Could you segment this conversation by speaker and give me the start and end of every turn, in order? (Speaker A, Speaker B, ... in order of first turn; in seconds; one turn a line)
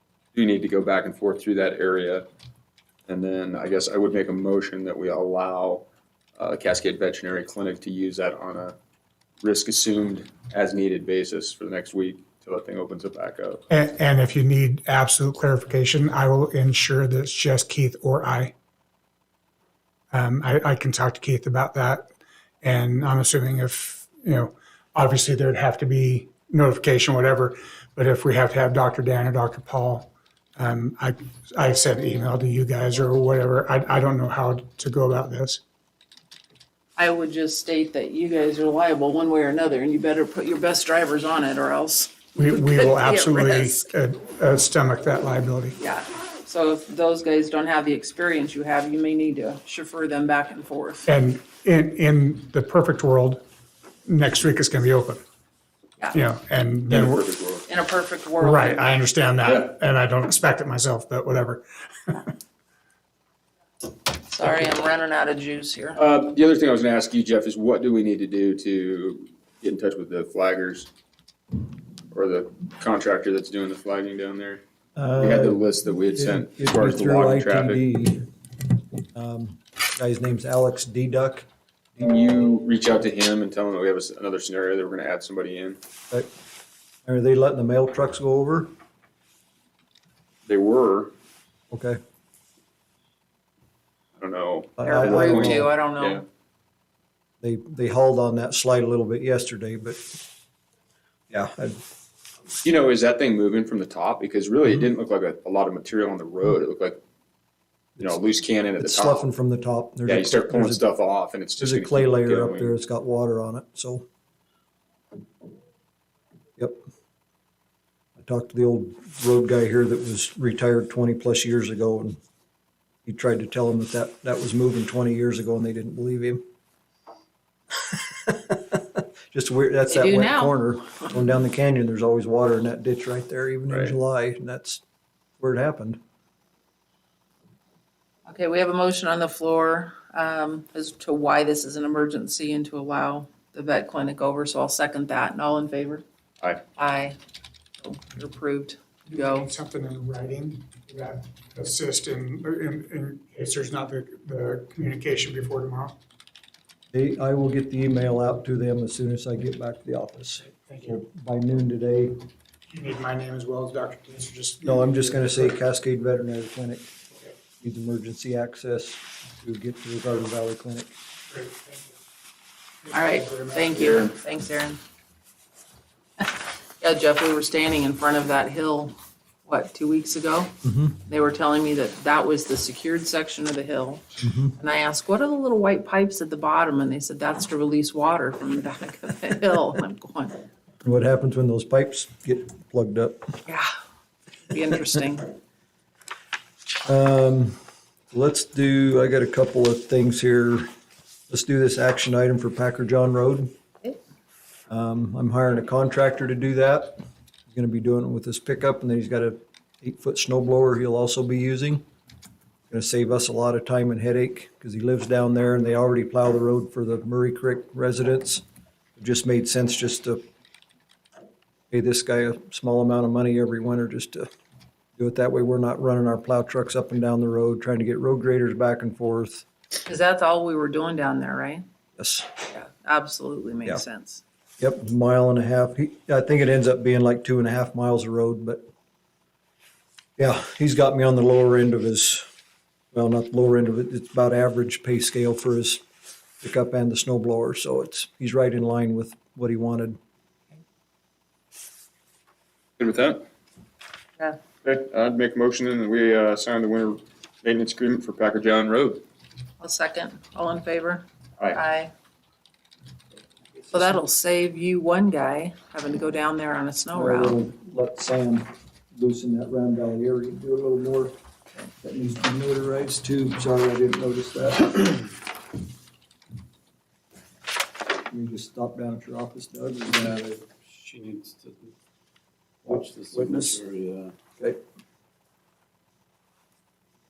Speaker A: 0.3-2.2
Speaker A: 3.1-5.8
Speaker A: 6.4-8.7
Speaker A: 9.4-13.6
Speaker B: 13.7-18.5
Speaker B: 20.1-22.1
Speaker B: 22.6-35.6
Speaker C: 37.0-43.9
Speaker B: 42.4-45.8
Speaker C: 45.8-51.1
Speaker B: 51.1-53.4
Speaker B: 54.0-55.2
Speaker B: 56.1-57.2
Speaker A: 56.9-57.6
Speaker C: 57.7-58.9
Speaker B: 58.4-62.3
Speaker A: 59.4-59.7
Speaker C: 64.1-66.0
Speaker A: 66.0-70.9
Speaker A: 72.1-74.6
Speaker D: 75.0-78.2
Speaker A: 75.2-77.8
Speaker D: 79.1-81.5
Speaker A: 82.0-85.8
Speaker D: 87.0-88.7
Speaker A: 90.5-91.1
Speaker D: 91.7-92.0
Speaker A: 94.2-96.2
Speaker D: 94.8-95.7
Speaker C: 94.8-96.2
Speaker D: 97.4-100.1
Speaker D: 101.3-101.8
Speaker A: 102.6-107.0
Speaker A: 108.0-109.3
Speaker D: 108.8-110.8
Speaker A: 110.0-112.8
Speaker D: 111.6-114.0
Speaker D: 118.2-122.2
Speaker D: 123.0-126.4
Speaker D: 127.9-134.8
Speaker C: 129.9-131.1
Speaker A: 133.7-133.9
Speaker D: 135.4-136.0
Speaker C: 138.3-146.0
Speaker C: 146.8-147.2
Speaker C: 147.8-149.5
Speaker B: 149.1-155.9
Speaker D: 156.9-162.2
Speaker B: 160.5-161.0
Speaker B: 162.7-165.5
Speaker D: 164.6-166.9
Speaker D: 167.6-170.9
Speaker B: 171.3-171.9
Speaker B: 172.8-174.1
Speaker C: 172.9-174.8
Speaker C: 176.2-184.0
Speaker D: 180.6-181.0
Speaker D: 184.2-184.5
Speaker C: 184.6-190.4
Speaker D: 190.8-193.3
Speaker C: 194.4-195.3
Speaker D: 196.8-197.6
Speaker D: 198.1-200.7
Speaker D: 201.3-203.5
Speaker D: 204.7-211.8
Speaker D: 212.7-218.4
Speaker D: 219.0-220.2
Speaker D: 221.7-224.3
Speaker D: 225.0-229.4
Speaker C: 229.8-231.6
Speaker D: 232.0-232.3
Speaker C: 232.5-234.2
Speaker D: 234.6-238.7
Speaker D: 240.2-242.2
Speaker D: 242.9-245.8
Speaker D: 246.4-250.0
Speaker A: 252.8-253.2
Speaker A: 254.6-259.0
Speaker C: 259.6-261.9
Speaker C: 263.7-267.4
Speaker D: 266.9-275.1
Speaker D: 278.1-280.2
Speaker E: 280.0-281.7
Speaker D: 282.6-283.6
Speaker E: 282.6-284.1